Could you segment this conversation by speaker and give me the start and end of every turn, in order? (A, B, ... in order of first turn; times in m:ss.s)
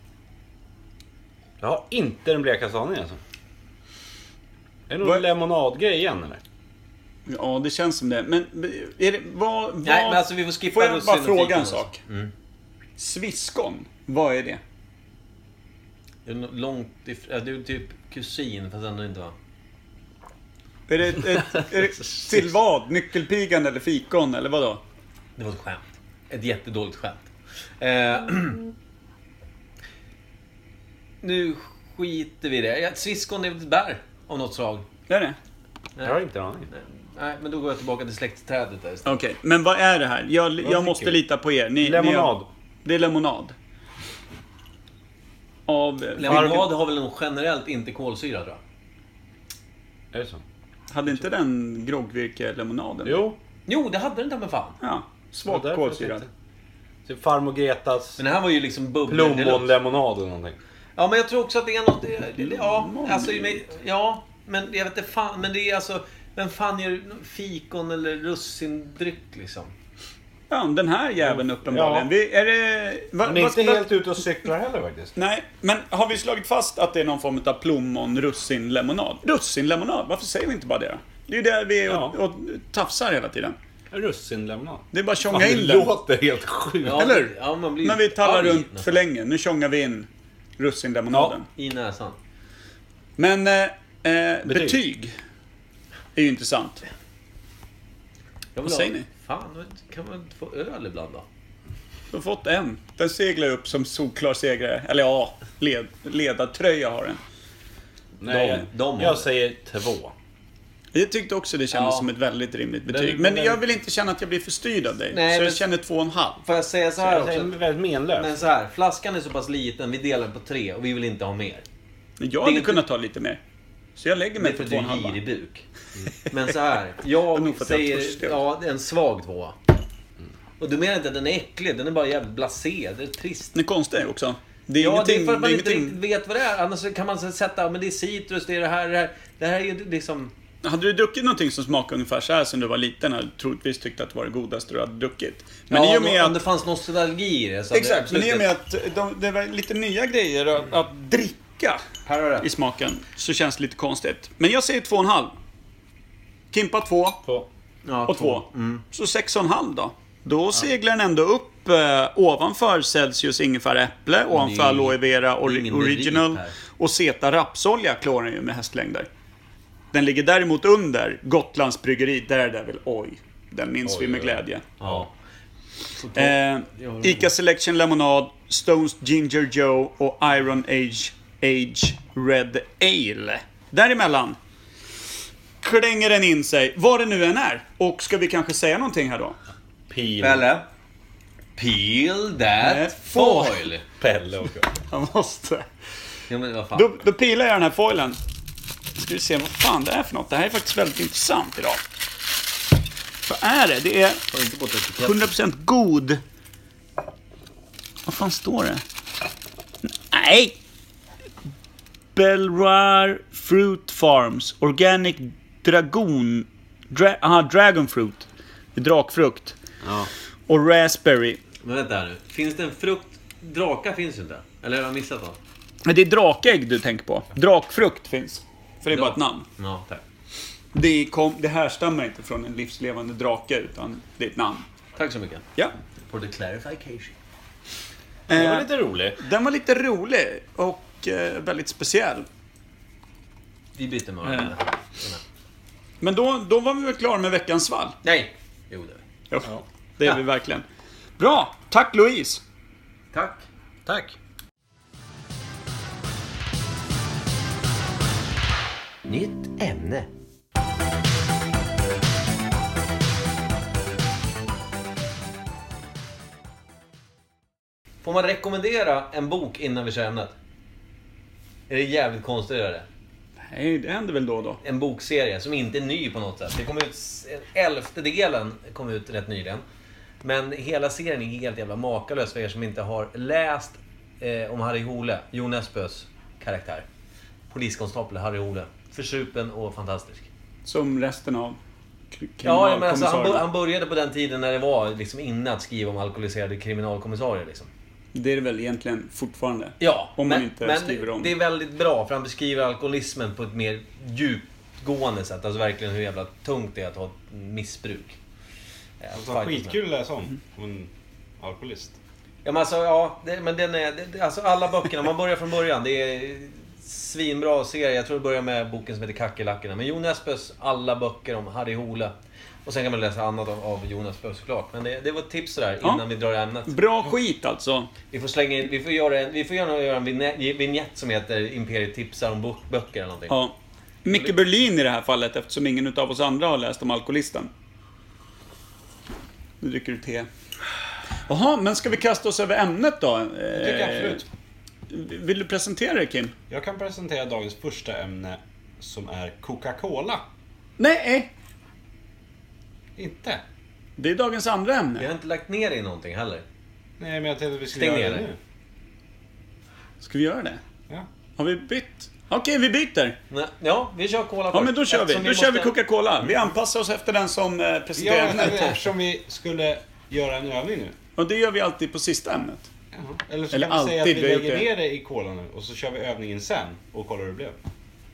0:01.6-0:03.2 A
0:04.9-0:06.4 A
0:07.2-0:12.0 B
0:09.8-0:12.3 C
0:13.0-0:14.6 B
0:16.2-0:19.3 C
0:20.9-0:24.8 B
0:25.4-0:28.7 C
0:31.2-0:34.8 C
0:35.1-0:35.4 B
0:36.0-0:36.7 A
0:36.7-0:39.2 C
0:39.0-0:43.5 B
0:40.6-0:41.2 A
0:41.8-0:42.5 A
0:45.7-0:46.7 B
0:46.2-0:48.6 C
0:46.3-0:46.6 A
0:50.1-0:50.4 A
0:50.9-0:53.2 B
0:53.0-0:53.4 A
0:53.7-0:54.8 C
0:54.8-0:56.2 B
0:55.4-0:56.3 A
0:57.0-0:58.2 A
0:58.2-0:59.8 C
0:59.1-1:00.6 A
1:01.0-1:09.7 C
1:02.4-1:03.6 B
1:10.5-1:13.9 B
1:11.2-1:12.1 A
1:13.2-1:15.1 A
1:15.2-1:23.6 B
1:21.9-1:22.2 A
1:23.9-1:27.1 A
1:24.9-1:25.9 B
1:26.8-1:29.0 C
1:26.9-1:27.3 B
1:27.8-1:31.4 B
1:31.1-1:32.2 C
1:33.2-1:35.1 B
1:34.4-1:34.8 A
1:36.1-1:36.8 B
1:38.6-1:41.2 C
1:38.6-1:39.1 B
1:42.1-1:47.2 B
1:48.2-1:50.1 A
1:48.2-1:49.3 C
1:50.9-1:56.4 B
1:51.7-1:52.1 C
1:52.9-1:53.6 C
1:55.1-1:55.6 C
1:56.4-1:57.5 C
1:57.0-1:58.3 A
1:58.1-2:01.6 C
2:02.2-2:03.4 B
2:02.4-2:02.8 C
2:04.0-2:05.2 B
2:04.4-2:05.6 C
2:06.3-2:09.6 C
2:07.3-2:08.4 B
2:10.6-2:13.5 C
2:13.5-2:16.0 B
2:14.8-2:20.3 C
2:20.6-2:26.4 B
2:25.7-2:28.5 C
2:27.7-2:31.8 B
2:32.0-2:32.5 C
2:32.4-2:35.3 B
2:36.5-2:37.2 B
2:37.8-2:38.8 C
2:38.1-2:49.1 B
2:44.3-2:46.6 C
2:49.9-2:54.6 B
2:53.8-2:55.0 A
2:54.8-2:55.1 C
2:56.0-2:57.3 C
2:56.1-3:04.4 B
3:05.6-3:09.4 B
3:09.9-3:10.5 A
3:10.2-3:10.6 C
3:11.6-3:13.8 C
3:12.6-3:13.6 B
3:14.0-3:14.7 A
3:14.9-3:15.6 B
3:16.3-3:16.9 C
3:16.7-3:18.2 B
3:19.0-3:21.8 B
3:23.2-3:24.2 B
3:24.3-3:25.3 C
3:25.0-3:26.2 B
3:28.0-3:28.8 B
3:29.8-3:30.6 B
3:32.2-3:39.6 B
3:39.8-3:40.1 A
3:40.5-3:41.4 B
3:41.6-3:45.4 C
3:45.8-3:49.5 B
3:48.9-3:50.0 C
3:50.7-3:54.6 B
3:55.0-3:55.4 C
3:56.1-3:57.2 C
3:58.3-3:59.2 A
3:58.3-4:02.2 B
4:03.7-4:05.2 C
4:04.2-4:04.5 B
4:06.0-4:08.0 B
4:08.0-4:09.0 C
4:09.3-4:10.6 B
4:11.2-4:12.4 B
4:13.1-4:13.4 C
4:13.8-4:14.2 A
4:19.1-4:20.1 C
4:28.0-4:30.3 C
4:31.7-4:32.8 C
4:33.4-4:34.6 B
4:34.6-4:39.6 C
4:40.2-4:46.8 C
4:47.5-4:50.3 C
4:50.6-4:51.6 B
4:52.1-4:53.4 B
4:52.4-4:57.7 C
4:58.1-5:01.3 B
4:59.8-5:08.2 C
5:09.0-5:09.8 C
5:09.1-5:12.0 A
5:12.4-5:22.1 C
5:22.6-5:26.8 C
5:26.7-5:27.9 B
5:28.1-5:33.4 C
5:33.3-5:37.5 B
5:39.6-5:40.3 B
5:41.3-5:44.2 B
5:43.5-5:44.2 A
5:44.9-5:46.3 B
5:46.5-5:50.2 A
5:50.8-5:51.3 B
5:53.0-5:53.4 A
5:54.0-5:55.1 B
5:55.0-5:56.4 C
5:57.0-5:58.4 A
5:57.7-5:58.3 C
6:00.0-6:00.6 B
6:01.4-6:03.2 B
6:03.3-6:06.4 C
6:04.5-6:08.7 B
6:08.0-6:11.0 A
6:11.2-6:12.7 B
6:12.9-6:17.6 A
6:13.5-6:14.6 B